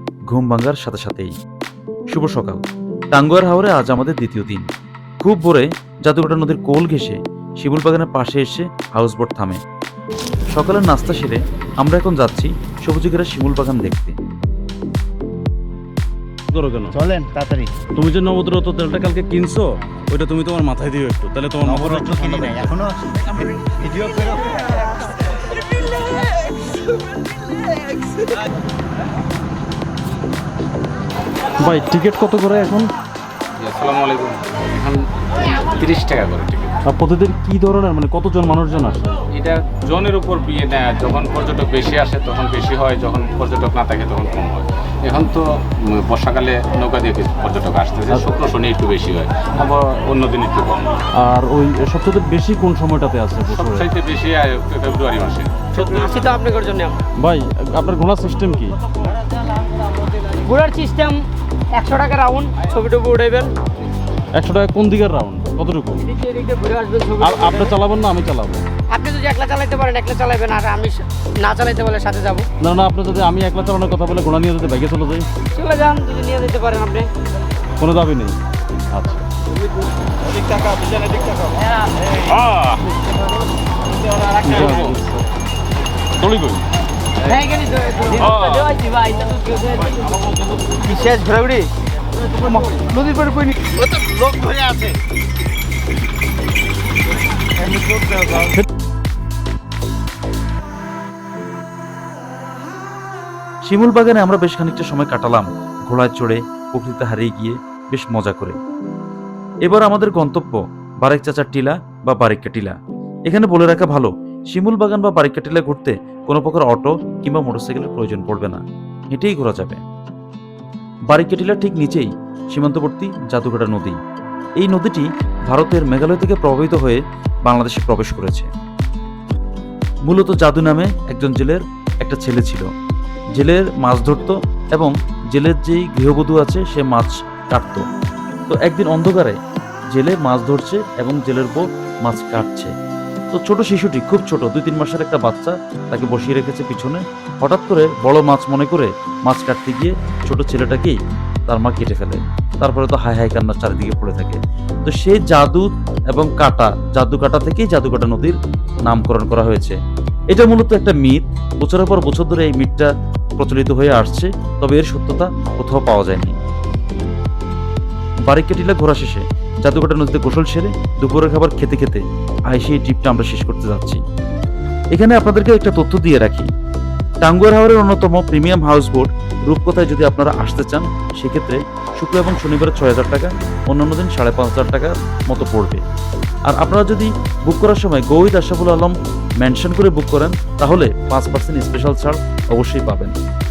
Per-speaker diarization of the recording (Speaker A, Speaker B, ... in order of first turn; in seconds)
Speaker A: 0.3-1.3, 2.1-4.7, 5.2-9.6, 10.5-14.1, 103.7-108.6, 109.6-112.7, 113.3-119.8, 121.1-124.0, 124.6-128.5, 130.1-132.7, 133.4-137.8, 138.5-139.4, 139.9-142.7, 143.3-159.8, 160.3-166.4, 168.3-174.0, 174.9-176.5, 177.2-185.8, 186.5-193.1
Speaker B: 16.5-16.9, 17.9-22.7, 31.6-32.9, 36.9-39.2, 51.1-53.9, 57.2-58.8, 64.3-66.0, 67.2-68.6, 72.6-75.3, 77.8-78.4, 78.9-79.2, 84.4-85.2, 86.2-86.6
Speaker C: 16.9-17.9, 21.6-24.6
Speaker D: 33.6-36.8, 39.3-51.0, 53.5-55.7, 82.2-82.8, 84.1-84.9
Speaker E: 55.7-57.0, 60.4-63.5, 66.1-67.7, 68.9-72.5, 75.5-77.1, 87.2-90.2, 90.7-91.7, 92.2-94.9